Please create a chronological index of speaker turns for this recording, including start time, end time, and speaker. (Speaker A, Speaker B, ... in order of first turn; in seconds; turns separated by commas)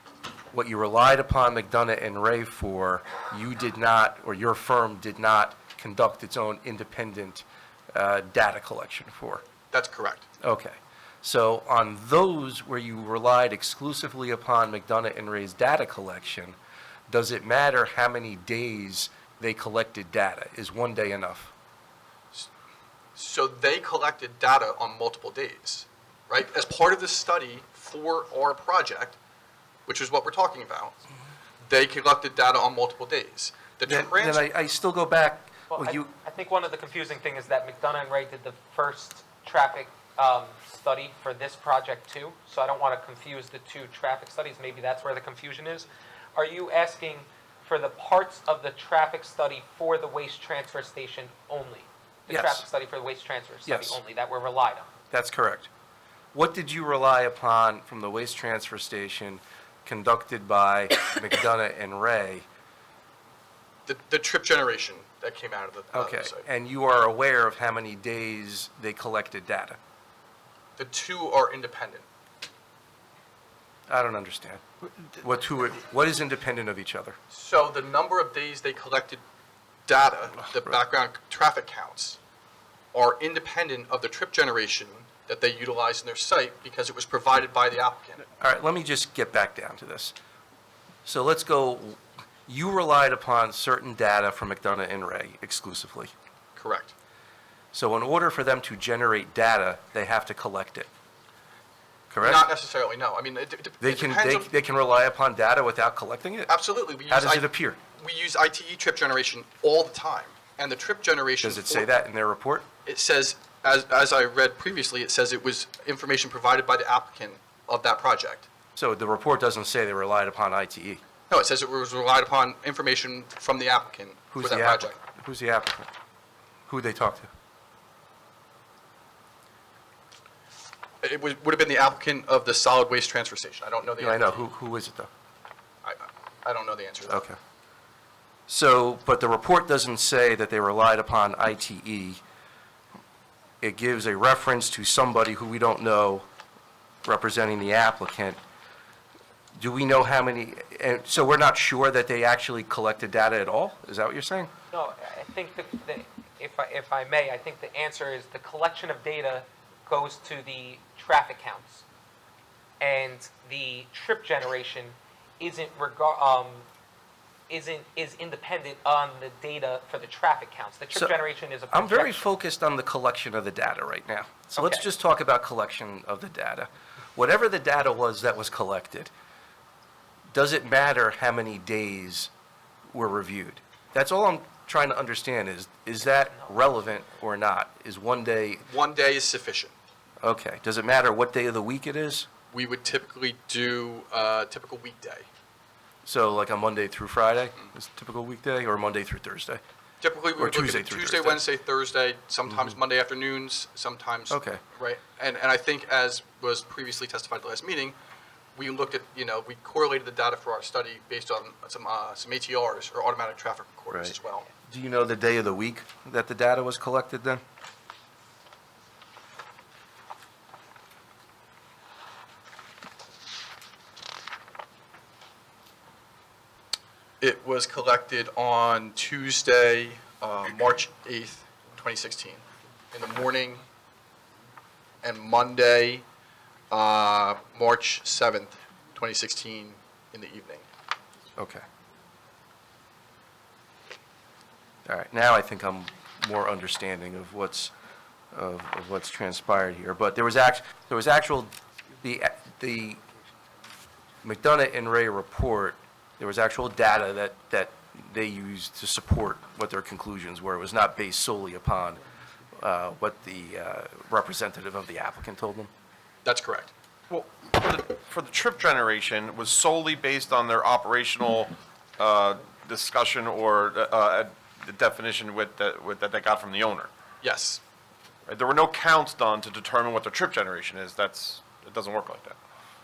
Speaker A: 0.5-9.4, Speaker B: 9.7-10.3, Speaker A: 10.4-16.6, Speaker A: 17.1-21.5, Speaker B: 23.1-29.2, Speaker B: 29.9-31.0, Speaker B: 31.6-34.5, Speaker A: 33.9-36.1, Speaker C: 35.7-54.9, Speaker A: 52.3-52.7, Speaker A: 53.7-54.0, Speaker A: 55.1-55.7, Speaker A: 56.3-62.5, Speaker B: 63.9-66.4, Speaker A: 65.9-69.8, Speaker B: 70.8-72.0, Speaker A: 73.9-77.2, Speaker B: 77.3-79.2, Speaker B: 79.9-82.2, Speaker B: 82.9-88.2, Speaker A: 88.4-90.1, Speaker A: 91.0-96.1, Speaker B: 96.5-96.9, Speaker A: 97.7-100.9, Speaker A: 102.1-102.5, Speaker B: 102.2-104.5, Speaker A: 103.8-106.5, Speaker B: 106.5-111.9, Speaker A: 107.1-107.8, Speaker A: 111.4-112.7, Speaker B: 112.8-118.5, Speaker A: 118.8-121.0, Speaker B: 121.3-125.0, Speaker A: 124.3-125.9, Speaker A: 126.7-127.3, Speaker B: 131.0-134.4, Speaker A: 134.0-135.1, Speaker B: 135.8-137.2, Speaker A: 137.1-137.4, Speaker A: 138.5-142.2, Speaker A: 143.6-146.2, Speaker A: 147.0-148.4, Speaker A: 149.6-154.5, Speaker C: 154.7-161.8, Speaker C: 162.8-166.7, Speaker C: 167.5-172.2, Speaker A: 171.7-179.1, Speaker C: 174.6-174.8, Speaker A: 180.3-182.3, Speaker A: 182.9-188.6, Speaker B: 188.7-189.8, Speaker A: 190.2-192.3, Speaker B: 192.5-195.3, Speaker A: 196.0-199.6, Speaker B: 200.0-207.9, Speaker A: 200.4-201.4, Speaker A: 204.3-204.6, Speaker B: 208.6-214.5, Speaker A: 214.7-217.4, Speaker B: 227.2-233.6, Speaker B: 235.0-236.0, Speaker B: 236.7-240.7, Speaker A: 241.3-241.6, Speaker A: 244.8-247.7, Speaker A: 248.3-253.0, Speaker A: 254.2-262.0, Speaker A: 262.6-265.7, Speaker B: 266.2-266.7, Speaker D: 267.1-276.9, Speaker B: 277.2-277.6, Speaker D: 278.3-282.4